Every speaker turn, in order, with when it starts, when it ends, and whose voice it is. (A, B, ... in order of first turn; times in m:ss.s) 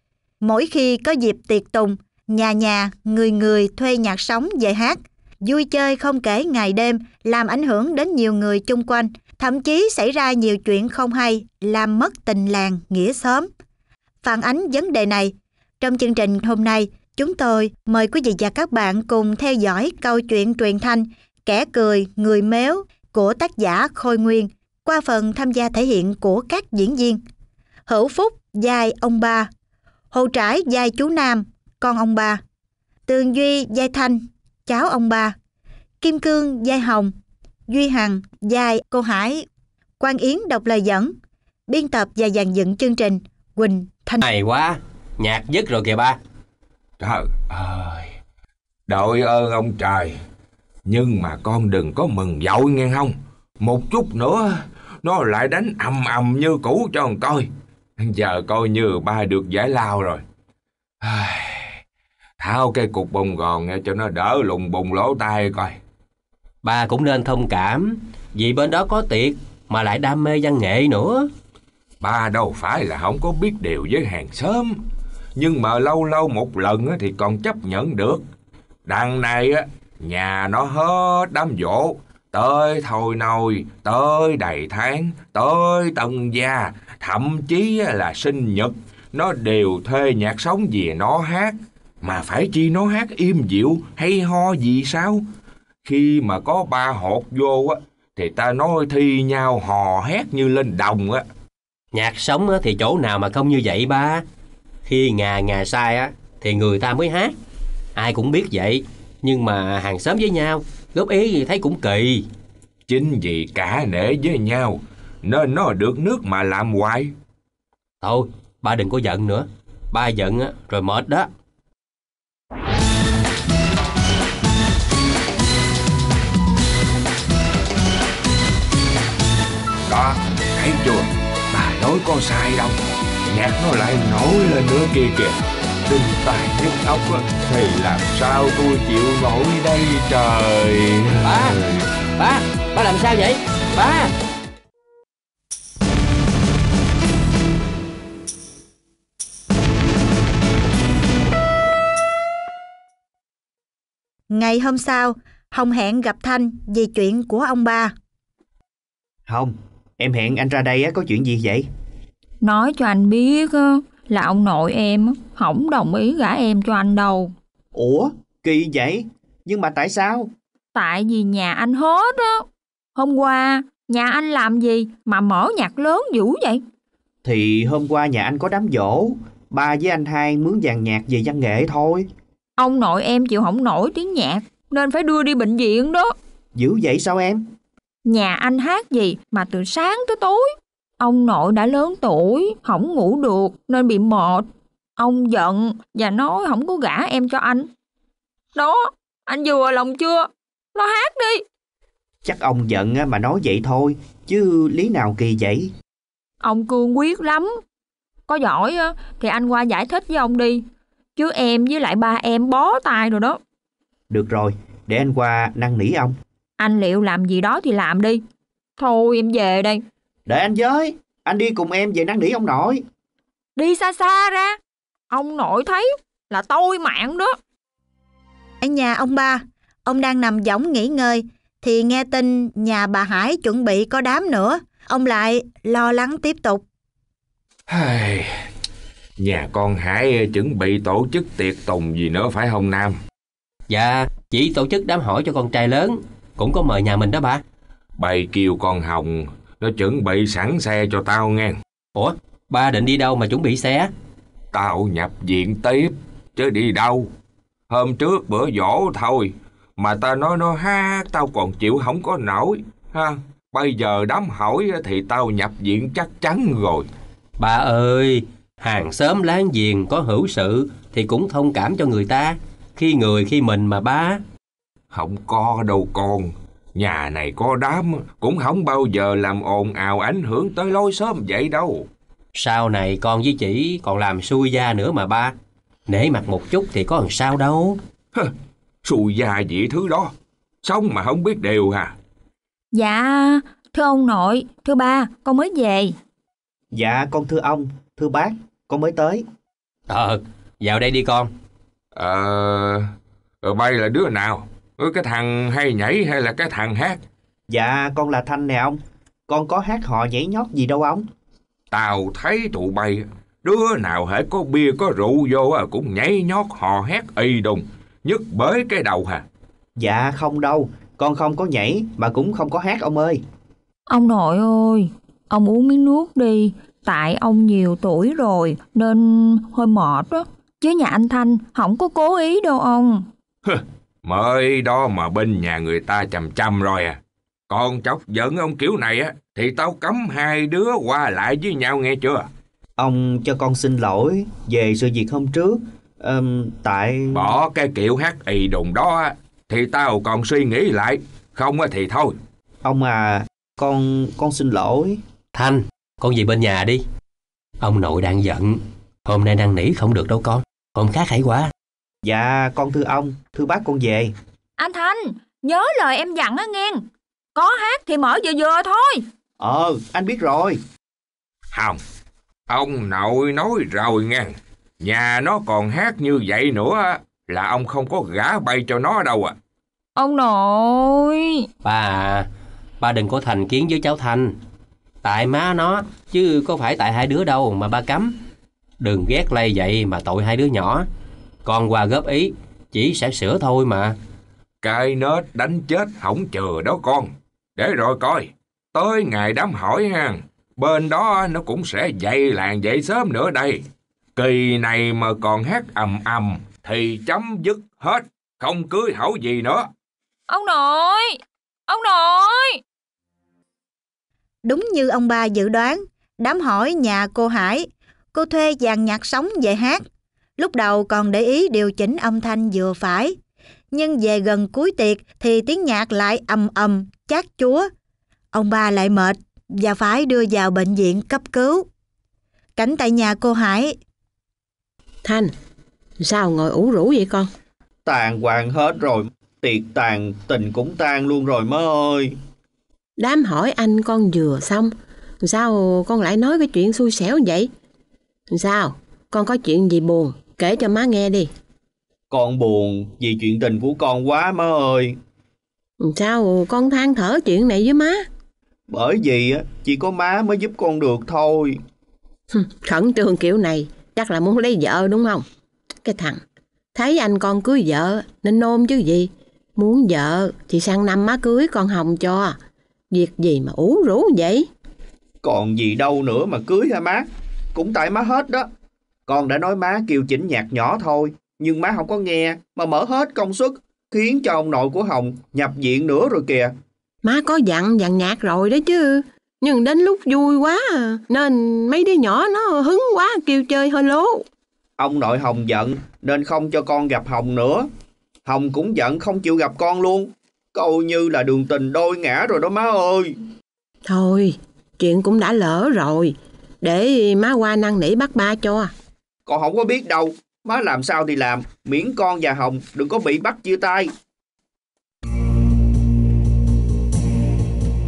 0:00.4-0:13.5 A
0:14.2-0:27.2 A
0:27.9-0:29.5 A
0:30.1-0:32.4 A
0:33.1-0:35.3 A
0:36.0-0:37.1 A
0:37.7-0:39.4 A
0:40.0-0:41.1 A
0:41.7-0:44.2 A
0:44.2-0:46.2 B
0:47.0-0:48.1 C
0:48.9-0:50.2 C
0:50.8-0:57.5 C
0:58.0-1:00.2 C
1:01.0-1:01.8 C
1:02.4-1:05.7 C
1:06.6-1:11.3 B
1:12.0-1:14.8 C
1:15.4-1:18.2 C
1:18.8-1:35.2 C
1:35.8-1:41.2 C
1:41.9-1:44.2 B
1:44.8-1:47.3 B
1:47.9-1:52.2 B
1:52.9-1:57.1 C
1:58.0-2:01.3 B
2:09.8-2:12.8 C
2:13.3-2:21.8 C
2:22.2-2:24.1 B
2:34.3-2:37.9 A
2:39.2-2:41.7 D
2:42.4-2:47.3 E
2:47.7-2:50.3 D
2:50.7-2:56.6 E
2:57.2-3:02.0 D
3:02.6-3:06.1 E
3:06.5-3:07.4 D
3:08.0-3:14.4 E
3:15.0-3:17.7 E
3:18.5-3:21.4 E
3:22.2-3:25.7 D
3:26.4-3:27.6 E
3:28.3-3:30.6 E
3:31.2-3:33.4 E
3:34.1-3:36.1 D
3:36.6-3:38.2 E
3:38.8-3:39.8 E
3:40.3-3:42.8 D
3:43.6-3:44.6 E
3:45.1-3:47.3 E
3:48.6-3:56.6 A
3:57.7-3:58.4 C
3:59.2-4:03.0 C
4:03.7-4:07.4 B
4:08.0-4:11.5 C
4:11.9-4:13.9 B
4:14.5-4:17.1 C
4:17.7-4:26.9 C
4:27.4-4:34.2 B
4:34.9-4:41.9 C
4:42.3-4:45.3 B
4:45.9-4:47.8 B
4:48.8-4:50.1 C
4:50.6-4:51.9 C
4:52.7-4:55.9 E
4:56.7-4:59.2 D
4:59.9-5:01.3 B
5:01.9-5:02.9 C
5:03.4-5:07.0 C
5:07.5-5:11.0 D
5:11.7-5:19.2 C
5:19.8-5:23.2 D
5:23.9-5:33.0 E
5:33.4-5:42.3 C
5:42.8-5:47.4 D
5:47.1-5:52.2 C
5:52.6-5:55.0 D
5:55.3-5:56.8 B
5:57.6-6:01.5 B
6:02.0-6:04.1 D
6:04.6-6:06.8 E
6:07.3-6:09.0 E
6:09.4-6:10.6 D
6:11.5-6:11.8 C
6:12.5-6:19.4 C
6:20.0-6:21.5 E
6:21.6-6:22.3 B
6:22.8-6:24.4 B
6:25.0-6:28.2 B
6:28.8-6:30.9 B
6:31.4-6:34.0 B
6:34.6-6:43.6 C
6:44.2-6:49.7 C
6:50.3-6:52.6 E
6:54.4-6:59.8 A
7:00.4-7:03.2 A
7:03.7-7:07.7 A
7:08.3-7:11.6 A
7:12.6-7:13.7 A
7:15.0-7:15.3 F
7:16.0-7:17.3 F
7:17.8-7:22.1 D
7:23.0-7:27.5 F
7:28.3-7:31.3 F
7:32.1-7:34.9 D
7:35.8-7:38.0 F
7:38.7-7:41.6 D
7:42.3-7:45.2 F
7:45.8-7:46.2 F
7:46.7-7:52.4 F
7:52.9-7:54.5 F
7:55.2-7:58.5 D
7:59.1-8:06.5 D
8:07.0-8:14.2 F
8:14.8-8:17.7 D
8:18.2-8:23.1 D
8:23.9-8:28.7 F
8:29.2-8:33.9 D